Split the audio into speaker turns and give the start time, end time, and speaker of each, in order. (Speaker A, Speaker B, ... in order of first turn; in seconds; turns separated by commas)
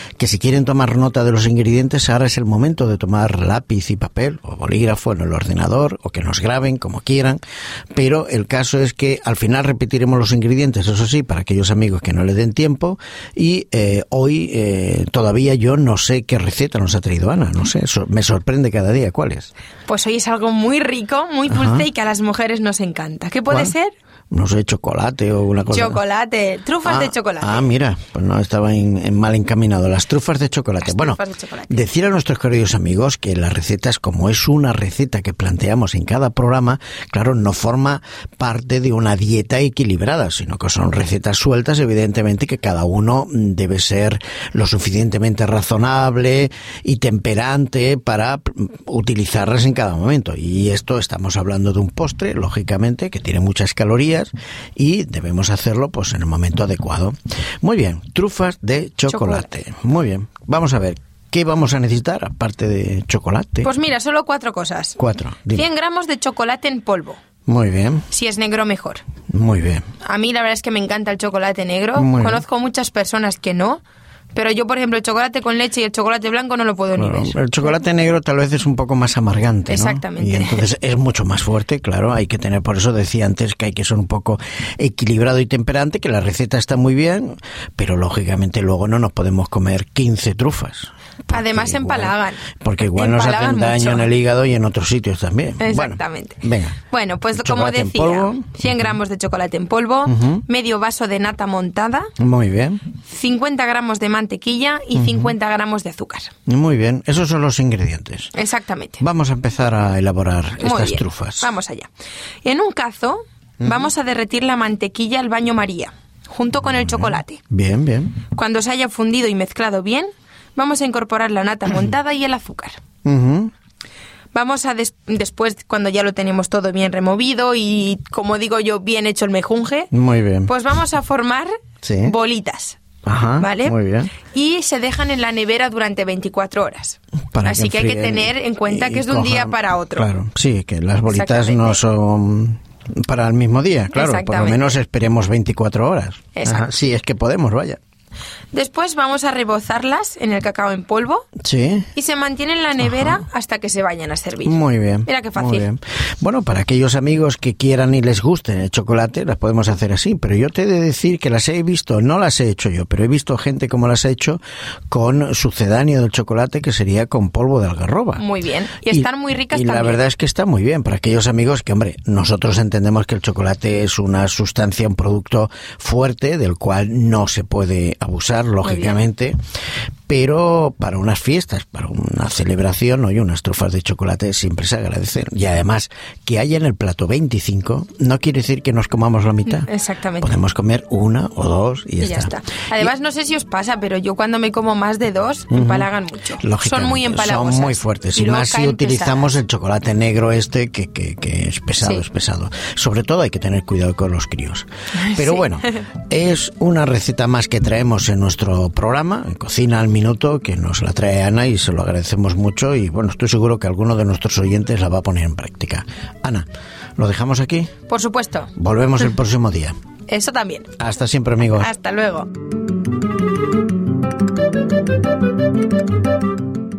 Speaker A: 0.2-7.4, Speaker A: 7.9-19.5, Speaker B: 19.9-23.9, Speaker A: 21.5-21.9, Speaker A: 24.3-26.0, Speaker B: 25.7-27.7, Speaker A: 26.9-63.7, Speaker B: 30.9-31.9, Speaker B: 59.1-59.4, Speaker B: 63.6-65.0, Speaker A: 65.0-65.7, Speaker B: 65.5-67.2, Speaker A: 67.5-68.1, Speaker B: 68.1-69.0, Speaker A: 69.3-69.9, Speaker B: 70.0-73.8, Speaker A: 72.0-72.4, Speaker B: 74.3-77.4, Speaker A: 77.0-96.8, Speaker B: 79.7-80.7, Speaker B: 91.3-94.1, Speaker B: 95.6-102.1, Speaker A: 97.3-98.9, Speaker A: 100.1-100.4, Speaker A: 102.2-102.8, Speaker B: 103.0-106.3, Speaker A: 105.0-105.3, Speaker A: 106.5-108.3, Speaker B: 108.3-109.0, Speaker A: 109.0-111.5, Speaker B: 110.6-111.9, Speaker B: 112.4-117.4, Speaker A: 116.8-118.2, Speaker B: 118.3-122.8, Speaker A: 123.0-123.5, Speaker B: 124.3-129.9, Speaker A: 129.9-130.5, Speaker B: 130.5-132.8, Speaker A: 131.8-132.1, Speaker A: 133.1-134.1, Speaker B: 133.4-140.1, Speaker A: 137.3-147.8, Speaker B: 141.1-141.8, Speaker B: 143.9-144.8, Speaker B: 146.3-146.7, Speaker B: 148.5-151.3, Speaker A: 151.4-151.9, Speaker B: 151.9-155.7, Speaker A: 152.9-153.2, Speaker A: 154.4-168.2, Speaker B: 168.2-170.0, Speaker A: 168.9-179.4, Speaker B: 178.6-179.0, Speaker A: 180.1-189.7, Speaker B: 189.5-190.4, Speaker A: 190.2-192.3, Speaker B: 192.0-199.4, Speaker A: 195.5-195.9, Speaker A: 196.4-217.7, Speaker B: 205.0-205.8, Speaker B: 217.9-218.5, Speaker A: 218.6-219.8, Speaker B: 220.1-220.7, Speaker A: 220.8-221.7, Speaker B: 221.4-222.3